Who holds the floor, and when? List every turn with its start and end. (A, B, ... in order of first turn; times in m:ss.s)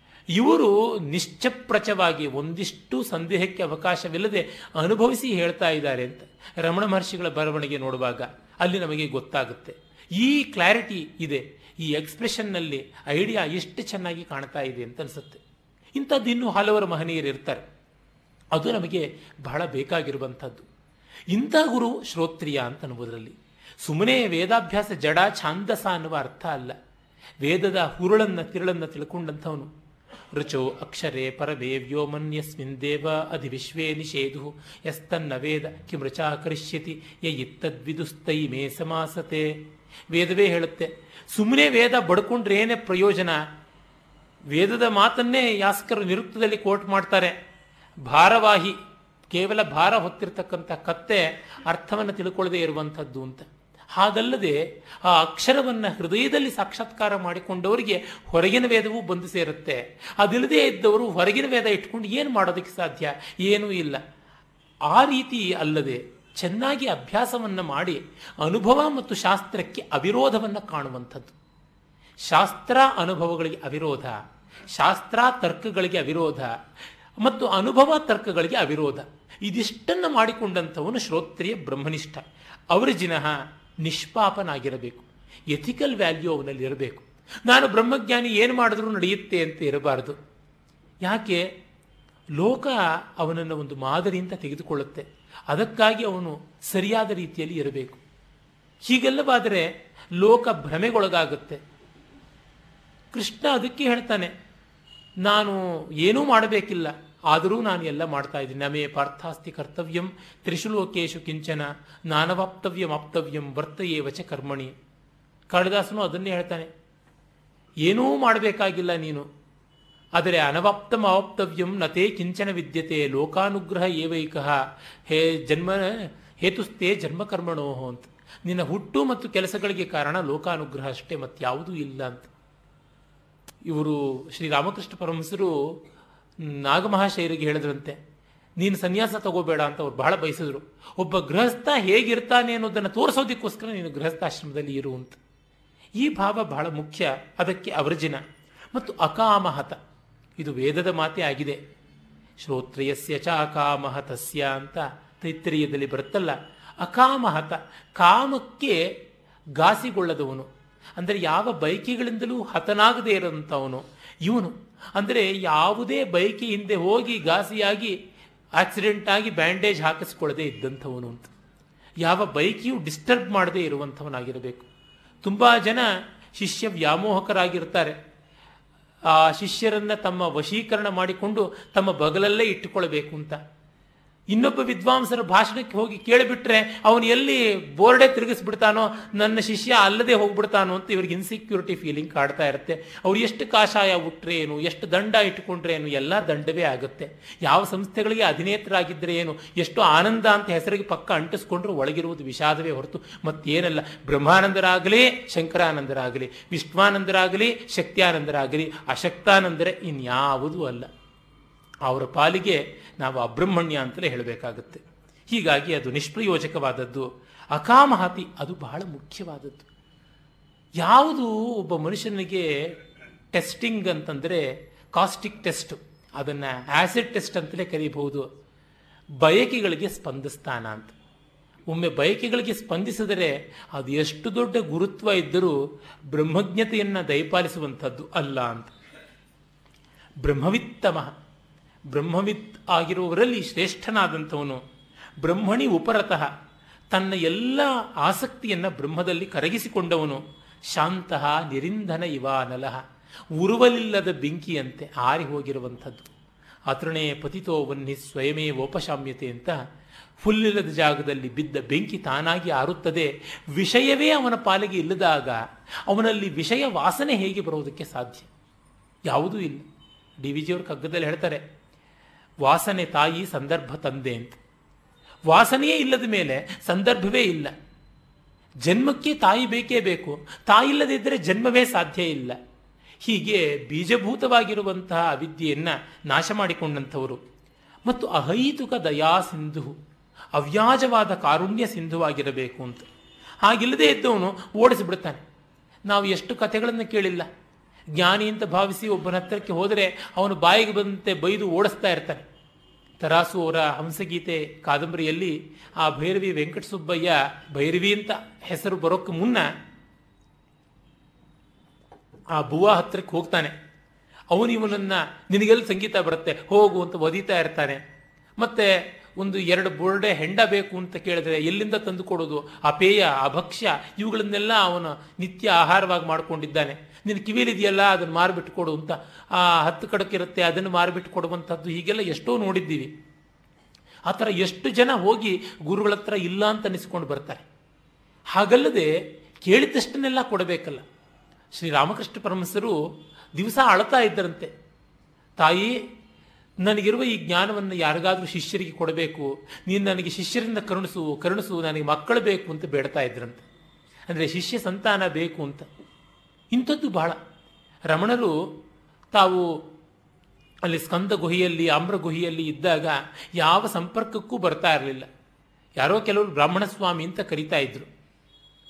0:00.3-0:15.4 A
0:15.9-0:17.6 A
0:18.5-0:20.6 A
0:21.3-0:26.8 A
0:27.4-0:29.7 A
0:30.3-0:43.4 A
0:44.5-0:47.3 A
0:48.0-0:48.8 A
0:49.3-1:04.0 A
1:04.9-1:11.3 A
1:12.2-1:14.2 A
1:14.7-1:16.5 A
1:17.2-1:30.2 A
1:31.0-1:31.4 A
1:32.4-1:38.0 A
1:38.9-1:41.6 A
1:43.1-1:44.3 A
1:45.2-1:54.7 A
1:55.5-1:56.7 A
1:57.8-1:59.2 A
2:00.2-2:12.3 A
2:13.6-2:15.8 A
2:16.4-2:18.0 A
2:18.6-2:25.2 A
2:26.0-2:29.8 A
2:30.4-2:31.6 A
2:32.4-2:38.9 A
2:39.6-2:48.0 A
2:48.6-2:51.3 A
2:52.0-2:54.7 A
2:55.2-2:58.0 A
2:59.1-3:03.4 A
3:04.3-3:30.9 A
3:31.8-3:39.7 A
3:40.8-3:42.8 A
3:43.3-3:48.2 A
3:49.2-3:50.9 A
3:51.7-3:58.7 A
4:00.2-4:01.1 A
4:01.9-4:04.6 A
4:05.2-4:06.3 A
4:06.9-4:12.8 A
4:13.4-4:16.1 A
4:16.7-4:19.6 A
4:20.2-4:28.3 A
4:29.1-4:29.6 A
4:30.2-4:31.4 A
4:32.4-4:34.4 A
4:35.3-4:37.5 A
4:38.6-4:42.4 A
4:43.0-4:47.2 A
4:47.8-4:49.8 A
4:50.3-4:52.9 A
4:53.4-4:55.2 A
4:55.9-4:57.3 A
4:57.9-5:02.3 A
5:03.0-5:09.5 A
5:12.3-5:13.5 A
5:14.3-5:17.8 A
5:18.4-5:32.9 A
5:34.1-5:37.5 A
5:38.3-5:40.8 A
5:41.5-5:42.8 A
5:43.4-5:44.5 A
5:45.4-5:45.8 A
5:46.6-5:53.4 A
5:54.1-5:55.7 A
5:56.5-5:57.2 A
5:57.9-5:58.4 A
5:59.1-5:59.6 A
6:00.6-6:05.1 A
6:05.8-6:07.9 A